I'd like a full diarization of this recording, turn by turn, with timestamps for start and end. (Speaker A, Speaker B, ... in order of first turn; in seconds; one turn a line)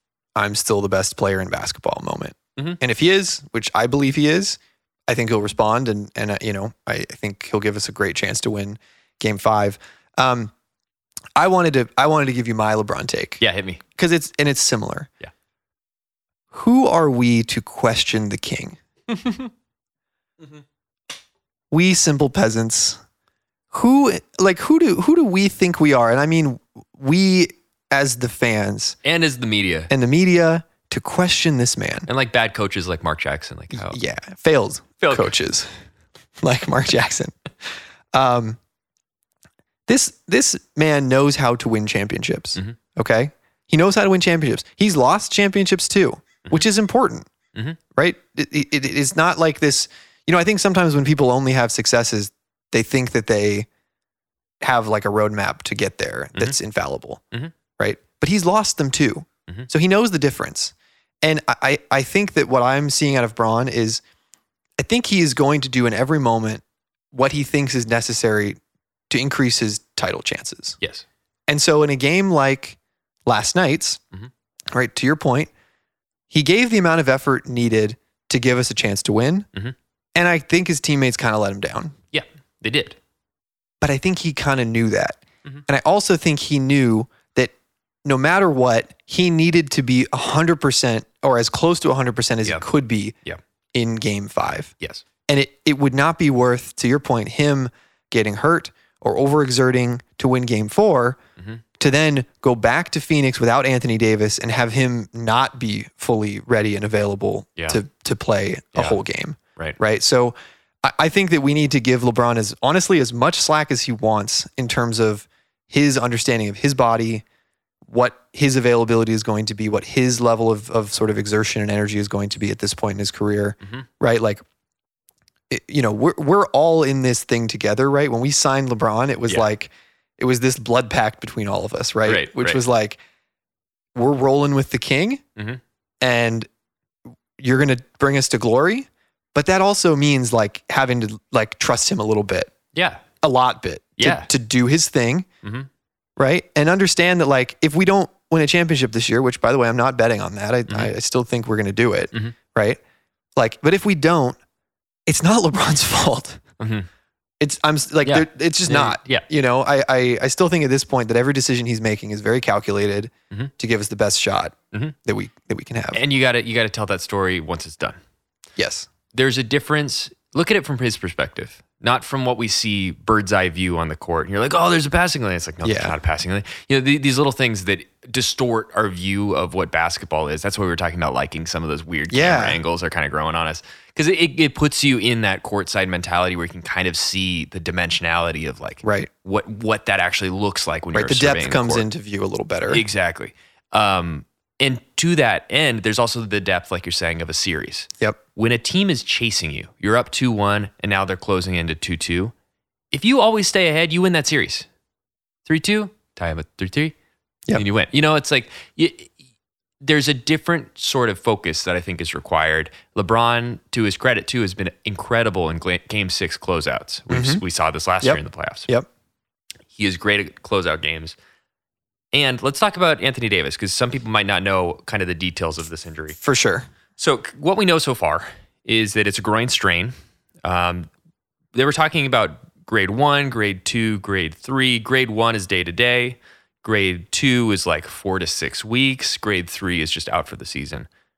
Speaker A: 0.3-10.5
Speaker A: 11.4-13.4
Speaker B: 13.4-13.8
Speaker A: 14.0-15.1
Speaker A: 16.5-18.8
Speaker A: 21.7-23.0
Speaker A: 23.7-29.0
Speaker B: 29.0-29.9
Speaker A: 29.9-32.1
Speaker B: 32.1-34.0
Speaker A: 33.7-35.7
Speaker B: 35.0-35.3
Speaker A: 36.4-37.4
Speaker A: 38.1-38.6
Speaker A: 39.9-47.3
Speaker A: 47.9-53.7
Speaker A: 54.6-57.2
Speaker A: 57.8-64.0
Speaker A: 64.8-68.6
Speaker A: 69.1-70.8
Speaker B: 70.8-71.0
Speaker A: 71.5-74.0
Speaker A: 74.7-75.5
Speaker A: 76.3-79.5
Speaker A: 80.1-81.9
Speaker B: 82.1-83.0
Speaker A: 83.8-87.5
Speaker A: 88.0-93.1
Speaker A: 93.7-94.7
Speaker A: 95.3-101.2
Speaker A: 101.8-117.2
Speaker A: 117.9-124.4
Speaker A: 125.5-133.0
Speaker B: 132.0-132.6
Speaker A: 133.9-135.2
Speaker B: 135.3-135.6
Speaker A: 136.0-136.5
Speaker A: 137.4-142.5
Speaker B: 142.7-143.0
Speaker A: 143.2-145.2
Speaker B: 144.0-144.3
Speaker B: 145.4-145.7
Speaker A: 146.2-152.8
Speaker A: 153.3-154.4
Speaker A: 155.1-156.4
Speaker B: 156.6-156.9
Speaker A: 157.4-166.0
Speaker B: 158.0-159.2
Speaker B: 165.9-168.0
Speaker A: 168.6-168.9
Speaker B: 169.1-191.8
Speaker A: 175.6-175.9
Speaker A: 182.1-182.6
Speaker A: 188.8-189.1
Speaker A: 190.9-192.8
Speaker B: 192.7-202.3
Speaker B: 202.9-204.7
Speaker B: 205.5-206.9
Speaker B: 207.5-209.1
Speaker B: 209.8-218.7
Speaker A: 217.1-217.4
Speaker A: 218.0-218.9
Speaker B: 219.7-221.2
Speaker B: 222.1-226.2
Speaker A: 226.2-226.7
Speaker B: 227.0-230.9
Speaker B: 231.5-240.9